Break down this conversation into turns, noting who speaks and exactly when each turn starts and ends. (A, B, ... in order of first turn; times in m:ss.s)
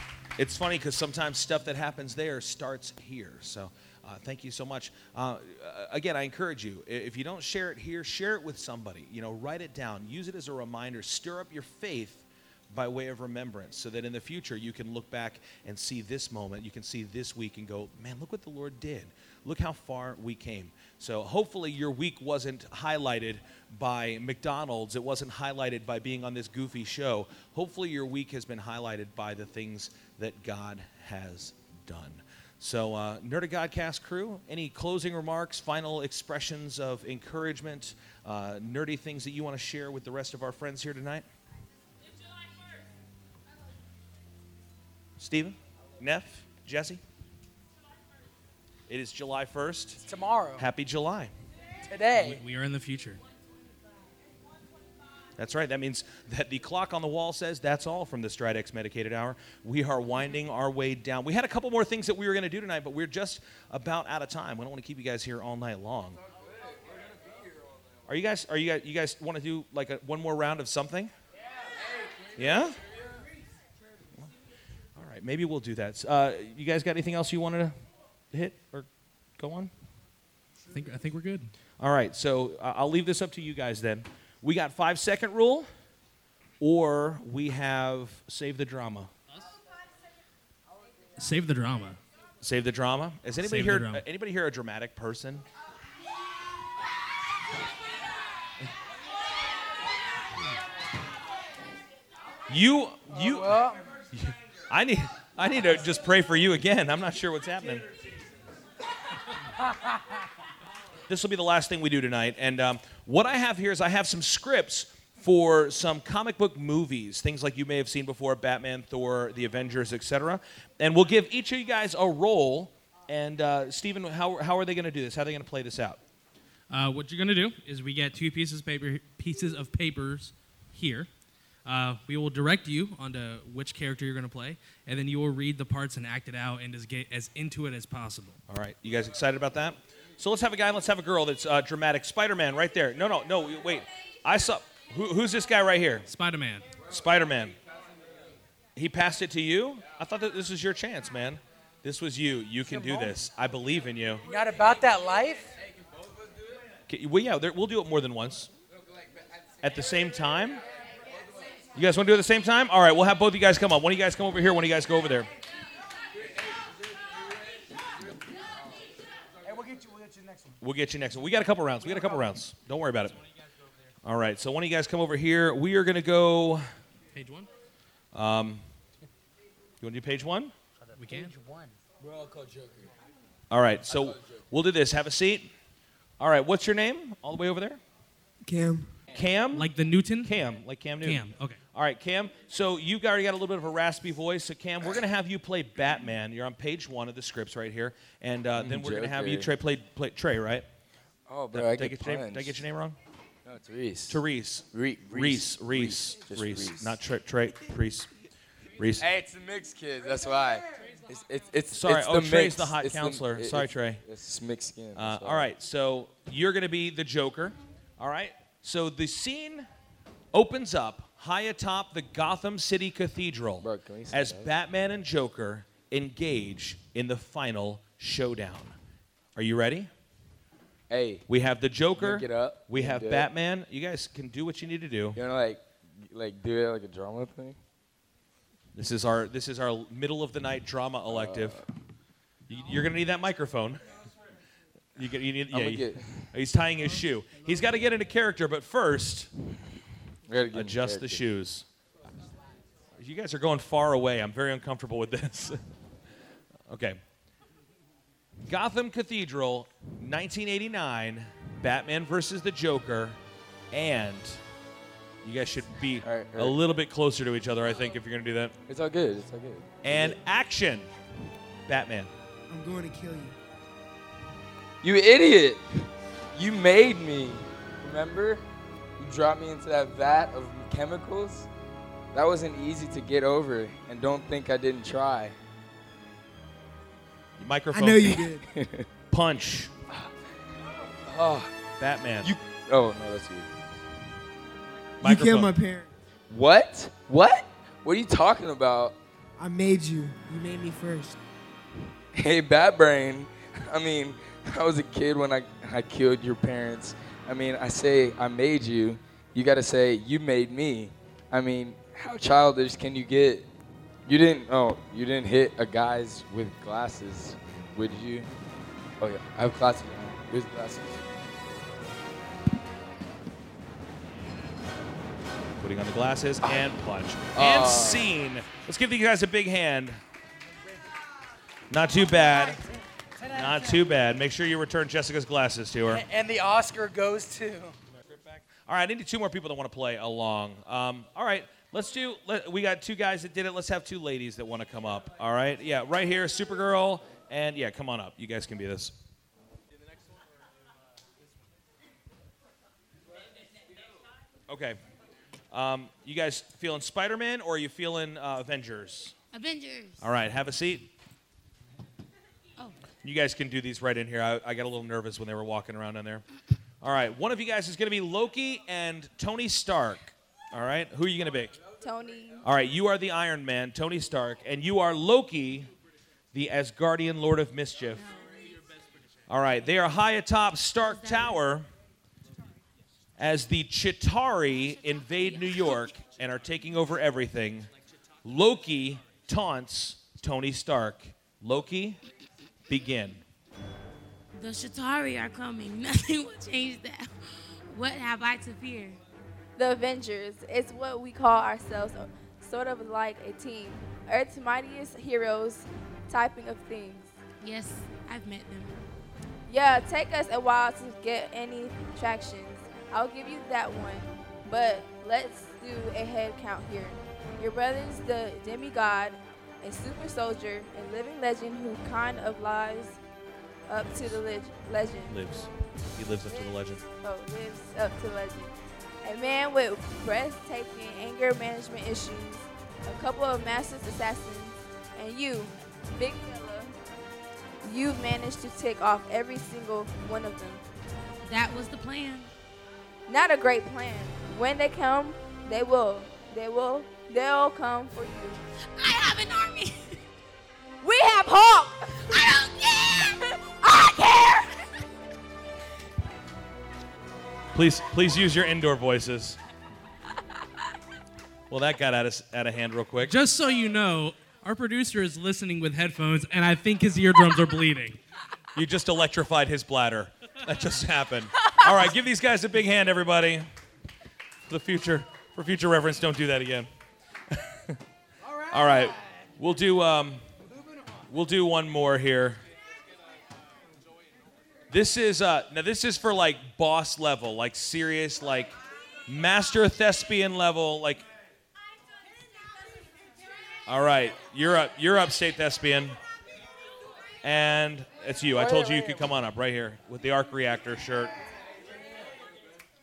0:00.4-0:41.2 A
0:45.2-0:47.0 A
0:48.9-0:50.0 A
0:50.0-0:50.7 B
0:50.6-0:51.3 A
0:51.9-0:52.4 B
0:52.1-0:53.2 C
0:55.4-1:06.2 A
1:08.1-1:11.1 A
1:12.4-1:12.8 A
1:15.0-1:17.7 A
1:18.3-1:19.7 A
1:20.7-1:21.5 C
1:21.8-1:25.7 A
1:26.6-1:29.1 A
1:31.2-1:32.0 C
1:32.4-1:35.4 A
1:33.4-1:34.0 C
1:42.5-1:43.6 A
1:43.1-1:43.9 B
1:44.1-1:47.9 A
1:51.1-2:06.0 A
2:06.7-2:11.1 C
2:11.6-2:18.4 C
2:18.5-2:26.0 A
2:26.1-2:26.7 C
2:26.9-2:27.6 A
2:28.8-2:34.2 A
2:32.6-2:33.2 B
2:34.2-2:35.6 B
2:36.9-2:38.5 A
2:39.6-2:40.6 A
2:41.7-2:45.3 A
2:49.4-2:50.5 B
2:50.6-2:53.2 A
2:54.0-2:56.6 A
2:57.1-2:57.5 C
2:58.1-2:58.6 A
2:59.8-3:00.5 A
3:00.9-3:01.8 B
3:01.0-3:01.3 C
3:03.5-3:05.5 A
3:06.2-3:07.8 A
3:08.4-3:08.9 D
3:09.1-3:09.7 A
3:09.5-3:10.3 C
3:10.2-3:11.2 A
3:11.0-3:11.6 C
3:11.7-3:20.6 A
3:18.5-3:19.5 E
3:21.3-3:22.6 E
3:21.5-3:23.0 A
3:23.4-3:27.0 E
3:24.1-3:28.1 A
3:28.8-3:29.0 A
3:29.0-3:35.5 E
3:31.7-3:34.0 A
3:35.0-3:39.7 A
3:40.3-3:48.8 A
3:43.6-3:44.5 E
3:49.4-3:49.9 A
3:50.9-3:51.2 E
3:51.3-3:55.2 A
3:51.9-3:53.3 E
3:55.1-3:57.6 E
3:58.7-4:01.6 A
4:01.1-4:01.6 E
4:02.5-4:03.8 A
4:05.0-4:09.3 A
4:05.5-4:06.3 E
4:10.3-4:11.2 E
4:10.5-4:11.6 A
4:13.0-4:15.6 A
4:16.7-4:17.0 A
4:18.4-4:23.2 A
4:23.7-4:24.4 A
4:25.2-4:28.5 A
4:26.0-4:26.6 E
4:28.7-4:30.2 E
4:29.8-4:30.9 A
4:31.7-4:32.1 A
4:32.5-4:33.4 D
4:34.8-4:38.4 E
4:39.0-4:41.5 E
4:42.1-4:45.4 E
4:47.4-4:48.2 A
4:47.7-4:48.4 D
4:48.5-4:48.9 E
4:49.1-4:49.7 A
4:51.0-4:51.5 E
4:51.8-4:52.3 A
4:52.2-4:53.5 E
4:55.0-4:55.5 A
4:55.0-4:55.9 D
4:56.3-4:59.0 E
4:59.4-5:01.2 D
5:02.2-5:13.5 E
5:14.0-5:18.3 E
5:19.0-5:21.0 E
5:25.6-5:30.0 A
5:27.3-5:28.1 E
5:31.7-5:32.6 A
5:31.9-5:32.6 B
5:33.2-5:33.9 B
5:33.3-5:36.0 A
5:35.8-5:37.8 B
5:38.6-5:49.0 A
5:54.5-5:54.8 A
5:55.5-5:59.1 A
5:59.3-6:00.0 F
6:00.0-6:00.9 A
6:03.0-6:06.2 A
6:06.8-6:11.6 A
6:11.8-6:12.4 G
6:12.4-6:15.7 A
6:16.3-6:18.1 A
6:19.3-6:21.7 A
6:20.9-6:21.3 F
6:23.2-6:27.7 A
6:25.3-6:25.8 F
6:28.2-6:32.0 A
6:32.7-6:33.2 A
6:34.3-6:39.0 F
6:39.6-6:47.1 G
6:47.4-6:48.8 F
6:49.5-7:03.0 G
7:03.7-7:05.1 G
7:05.1-7:06.8 A
7:06.3-7:08.5 G
7:09.0-7:16.7 G
7:17.6-7:20.6 G
7:21.2-7:22.3 F
7:23.1-7:28.4 G
7:28.8-7:30.0 F
7:30.8-7:31.6 G
7:32.0-7:34.4 F
7:37.5-7:39.4 A
7:41.5-7:43.1 A
7:43.0-7:48.0 C
7:48.6-7:53.4 A
7:54.5-7:56.7 A
7:57.4-7:57.8 A
7:58.3-7:58.9 B
7:58.5-8:00.2 A
8:01.1-8:02.4 A
8:04.7-8:11.0 A
8:13.7-8:16.0 A
8:17.2-8:21.1 A
8:18.3-8:19.1 B